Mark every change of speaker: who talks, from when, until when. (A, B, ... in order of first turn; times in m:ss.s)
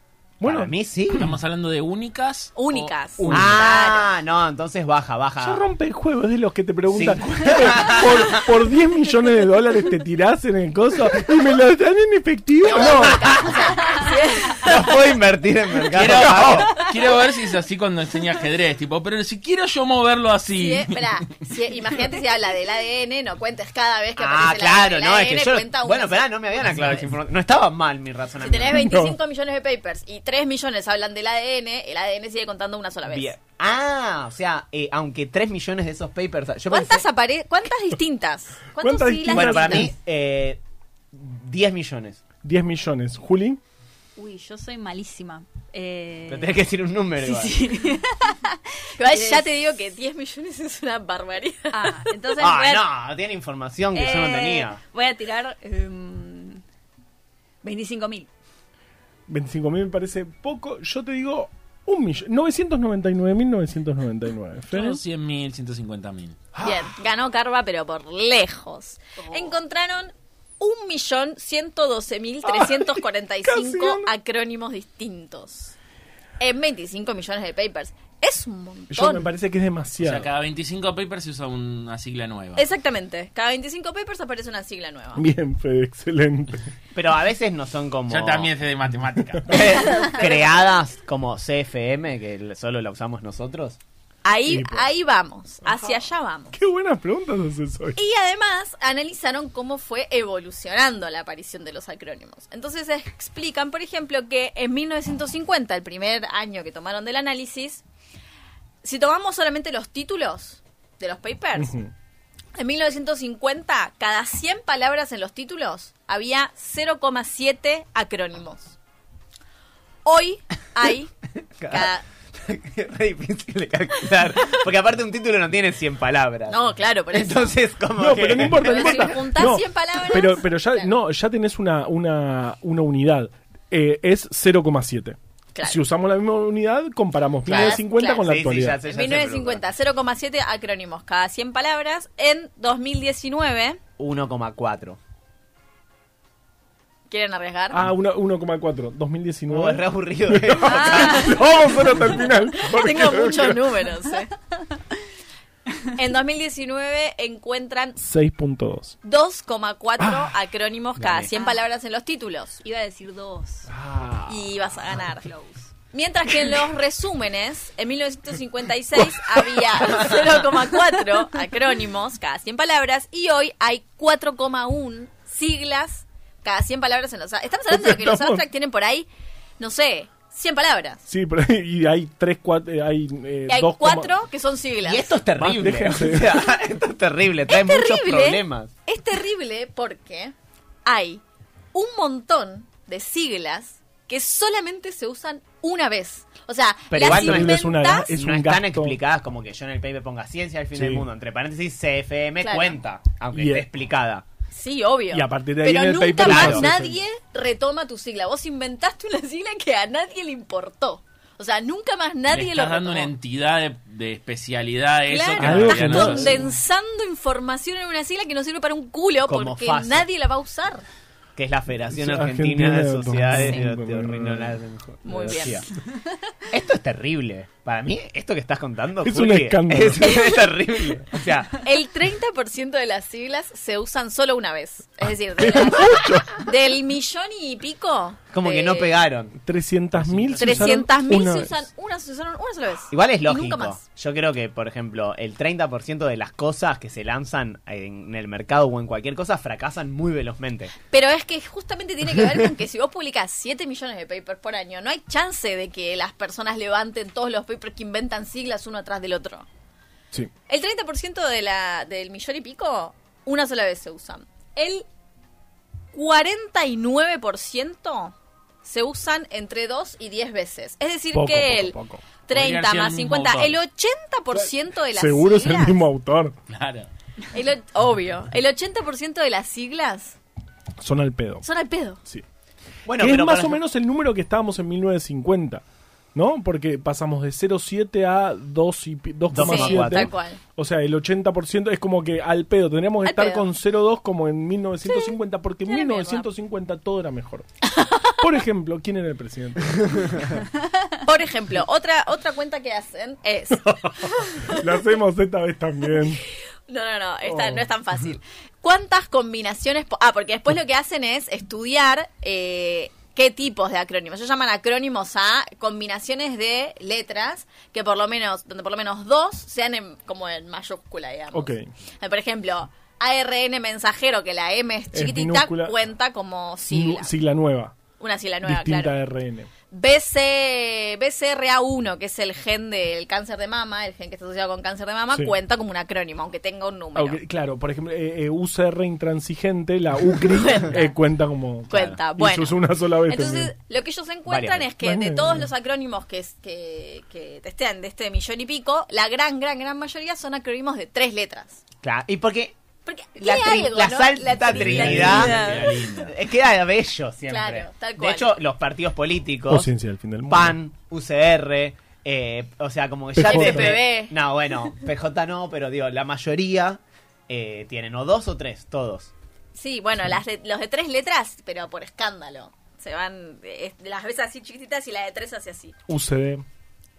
0:00.4-0:00.7 A
0:00.4-0:01.3 B
0:01.1-0:02.9 C
0:02.6-0:04.2 D
0:03.2-0:03.6 A
0:03.3-0:05.6 B
0:05.4-0:13.4 A
0:06.9-0:08.4 B
0:12.6-0:14.9 D
0:12.7-0:13.8 B
0:14.6-0:16.8 B
0:15.9-0:21.3 C
0:20.5-0:27.1 D
0:24.2-0:28.8 B
0:28.4-0:33.3 D
0:28.7-0:29.2 A
0:33.1-0:37.0 B
0:36.7-0:39.9 D
0:38.7-0:39.9 A
0:39.3-0:40.6 B
0:41.1-0:42.2 B
0:42.4-0:43.6 A
0:44.2-0:46.5 E
0:46.3-0:47.7 B
0:47.3-0:49.4 E
0:49.0-0:52.4 D
0:51.8-0:52.8 E
0:52.4-0:54.8 B
0:54.0-0:56.6 E
0:57.6-0:58.3 E
0:59.3-1:05.0 A
1:04.7-1:06.4 C
1:06.5-1:06.9 A
1:06.6-1:15.8 D
1:12.4-1:14.1 A
1:16.4-1:19.3 D
1:18.9-1:20.3 A
1:20.0-1:22.6 C
1:22.6-1:25.2 D
1:25.2-1:26.7 A
1:26.9-1:28.5 B
1:28.1-1:29.6 C
1:29.5-1:33.8 B
1:34.2-1:36.5 D
1:34.5-1:34.9 A
1:35.6-1:38.0 A
1:38.0-1:47.8 D
1:48.8-1:51.7 D
1:51.6-1:51.9 A
1:52.6-1:58.8 D
2:00.0-2:01.1 D
2:01.6-2:06.6 B
2:01.7-2:02.0 D
2:06.5-2:07.6 D
2:07.1-2:09.4 B
2:08.0-2:18.8 A
2:08.5-2:10.9 D
2:17.5-2:19.7 B
2:17.5-2:18.3 D
2:18.9-2:23.8 D
2:24.0-2:25.0 B
2:27.1-2:27.8 D
2:27.7-2:33.7 A
2:29.5-2:31.4 B
2:30.6-2:31.4 D
2:32.6-2:34.3 D
2:35.8-2:38.0 D
2:38.0-2:39.0 A
2:39.0-2:42.6 D
2:40.0-2:40.4 A
2:41.0-2:41.3 B
2:42.6-2:43.6 E
2:43.7-2:45.2 A
2:44.3-3:01.0 D
2:49.0-2:49.9 A
2:57.7-2:58.4 A
3:01.1-3:04.2 A
3:03.5-3:05.1 D
3:04.8-3:08.7 B
3:05.4-3:06.3 A
3:07.5-3:10.3 D
3:10.8-3:11.2 D
3:11.7-3:18.2 D
3:16.9-3:24.2 B
3:17.0-3:19.0 A
3:20.7-3:21.1 A
3:22.4-3:22.8 D
3:23.3-3:23.7 A
3:24.5-3:33.1 D
3:25.1-3:27.0 A
3:26.2-3:26.7 B
3:32.3-3:36.4 C
3:35.1-3:40.8 D
3:35.4-3:36.6 A
3:39.2-3:40.1 B
3:41.4-3:45.7 B
3:41.9-3:45.5 A
3:43.3-3:43.6 D
3:45.0-3:45.7 D
3:46.5-3:51.6 B
3:49.0-3:50.2 A
3:50.0-3:50.4 D
3:51.6-3:59.0 D
3:55.4-3:56.4 A
3:58.3-3:59.4 B
3:59.3-4:01.7 A
3:59.9-4:00.8 C
4:00.4-4:03.8 D
4:02.9-4:10.7 B
4:10.9-4:19.5 D
4:20.5-4:24.9 D
4:25.9-4:35.8 D
4:31.1-4:32.0 A
4:32.3-4:33.6 C
4:34.3-4:36.4 A
4:36.5-4:36.9 C
4:37.3-4:40.2 D
4:40.8-4:41.5 A
4:41.4-4:42.0 D
4:42.9-4:43.6 B
4:43.0-4:45.6 A
4:46.2-4:57.5 A
4:49.3-4:50.1 B
4:49.4-4:50.4 D
4:53.0-4:53.5 D
4:54.8-4:55.2 D
4:55.7-4:56.3 D
4:57.8-4:58.1 D
4:58.2-5:00.4 A
5:00.9-5:04.8 D
5:03.7-5:06.2 A
5:06.7-5:27.1 D
5:07.2-5:07.7 A
5:21.3-5:21.7 A
5:24.9-5:25.8 A
5:26.7-5:27.8 A
5:28.0-5:29.0 D
5:28.4-5:29.5 A
5:29.7-5:37.2 D
5:37.0-5:43.5 A
5:40.2-5:40.9 D
5:41.7-5:51.6 D
5:41.7-5:42.0 C
5:44.3-5:44.7 B
5:44.8-5:45.5 A
5:51.8-5:52.6 B
5:52.9-5:55.8 D
5:53.2-5:59.7 B
5:54.4-5:56.1 C
5:54.9-5:55.4 A
5:57.3-5:58.3 D
5:59.5-6:00.6 A
6:00.3-6:09.1 B
6:03.2-6:03.8 A
6:03.2-6:04.1 D
6:09.5-6:15.7 D
6:15.9-6:16.4 A